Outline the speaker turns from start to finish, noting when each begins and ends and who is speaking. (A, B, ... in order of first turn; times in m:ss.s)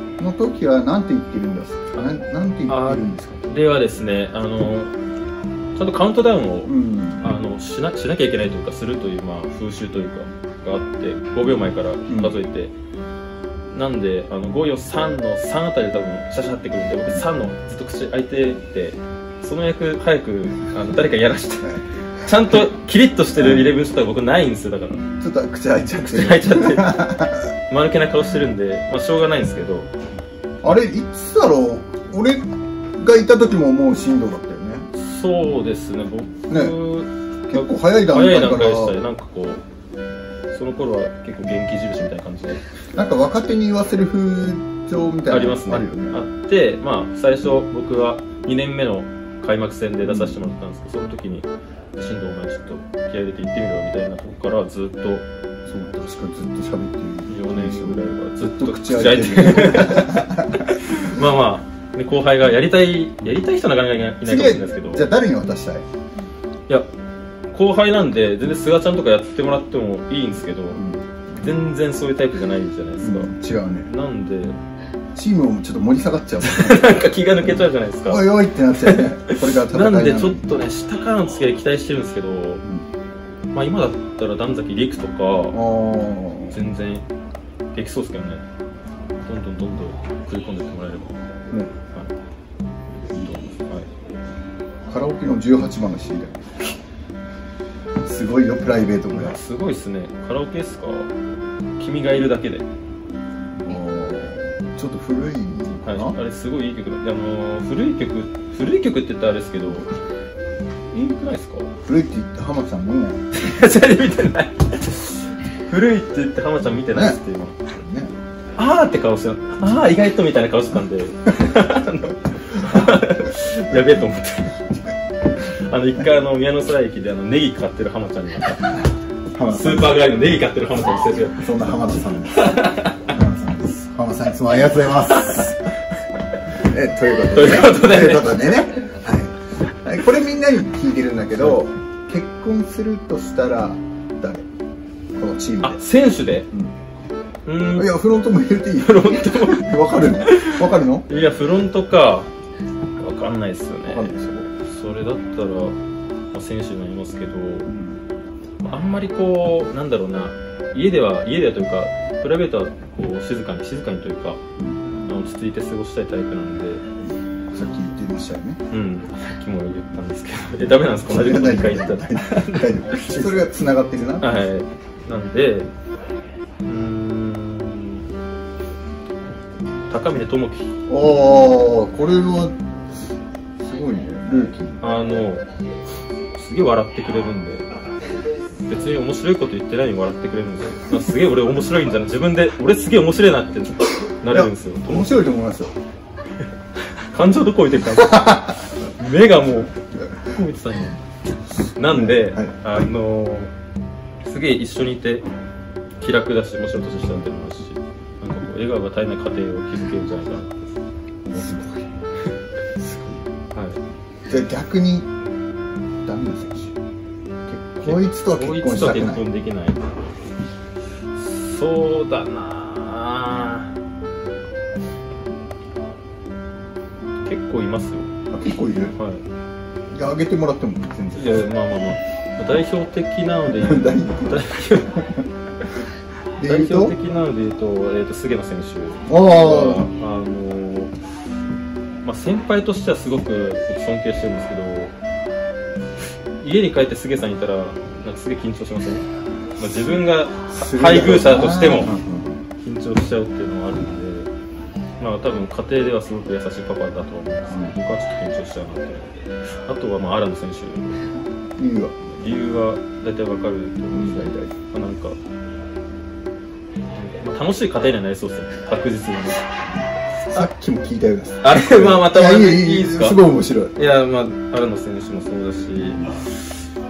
0:00.2-0:03.4 A
0:02.7-0:04.9 B
0:05.7-0:12.7 B
0:06.6-0:07.2 A
0:12.1-0:12.3 A
0:13.7-0:25.0 B
0:23.4-0:23.7 A
0:25.2-0:27.4 A
0:26.0-0:27.0 B
0:27.7-0:29.9 B
0:30.6-0:32.4 A
0:33.0-0:34.9 A
0:34.9-0:39.6 B
0:36.5-0:36.8 A
0:37.5-0:39.0 A
0:40.5-0:42.6 B
0:42.9-0:46.2 A
0:45.3-0:55.2 B
0:50.0-0:50.3 A
0:55.7-1:00.7 A
0:57.3-1:05.1 B
1:04.2-1:05.8 A
1:07.5-1:10.8 B
1:10.8-1:11.0 A
1:11.3-1:13.3 B
1:13.0-1:13.9 A
1:13.8-1:14.6 B
1:15.1-1:20.5 A
1:16.4-1:22.6 B
1:23.5-1:25.6 B
1:25.5-1:26.6 A
1:26.5-1:27.0 B
1:27.7-1:28.4 B
1:29.2-1:31.1 B
1:33.1-1:33.4 A
1:33.2-1:33.8 B
1:34.9-1:36.7 A
1:38.0-1:39.4 A
1:39.1-1:41.1 B
1:41.8-1:42.6 B
1:43.6-1:46.2 A
1:45.8-1:49.9 B
1:50.9-1:51.7 B
1:51.8-1:53.2 A
1:53.3-1:57.7 B
1:56.9-1:57.2 A
1:57.7-1:58.1 A
1:58.6-2:04.6 B
2:02.6-2:03.0 A
2:05.4-2:08.8 B
2:09.3-2:10.0 A
2:09.5-2:11.5 B
2:11.4-2:15.6 A
2:12.3-2:13.1 B
2:16.6-2:24.4 A
2:17.2-2:18.6 B
2:25.2-2:25.8 A
2:25.6-2:26.5 B
2:27.4-2:27.9 B
2:27.7-2:31.1 A
2:28.8-2:32.3 B
2:33.0-2:35.8 B
2:33.9-2:34.5 A
2:36.3-2:37.7 B
2:37.7-2:38.0 A
2:38.6-2:44.4 B
2:44.6-2:45.0 A
2:45.1-2:46.8 B
2:47.1-2:48.6 A
2:48.7-2:53.5 B
2:51.0-2:54.4 A
2:54.2-2:55.7 B
2:56.6-2:58.0 B
2:59.9-3:00.7 B
3:00.9-3:02.5 A
3:03.6-3:04.8 A
3:04.8-3:05.4 B
3:06.4-3:07.6 B
3:08.7-3:15.2 B
3:14.3-3:15.7 A
3:17.1-3:21.0 B
3:17.9-3:18.5 A
3:21.8-3:23.5 B
3:21.9-3:22.5 A
3:24.2-3:25.2 B
3:26.0-3:30.7 B
3:31.2-3:31.9 A
3:32.8-3:33.3 A
3:33.5-3:33.8 B
3:34.3-3:35.1 A
3:36.0-3:36.7 A
3:37.5-3:39.2 A
3:37.8-3:39.8 B
3:41.2-3:43.7 B
3:47.2-3:48.1 B
3:48.3-3:48.9 A
3:49.0-3:49.2 B
3:49.9-3:51.4 A
3:51.1-3:55.0 B
3:53.5-3:54.4 A
3:56.4-3:57.0 A
3:56.4-4:00.9 B
3:59.1-3:59.9 A
4:02.0-4:04.9 B
4:06.4-4:09.0 B
4:09.6-4:11.9 B
4:09.6-4:12.4 A
4:12.6-4:14.3 B
4:15.0-4:19.1 B
4:17.5-4:17.8 A
4:19.7-4:21.1 B
4:21.6-4:21.9 A
4:22.2-4:25.2 B
4:23.9-4:24.5 A
4:26.9-4:29.6 B
4:30.3-4:33.7 A
4:31.4-4:33.2 B
4:33.8-4:36.4 B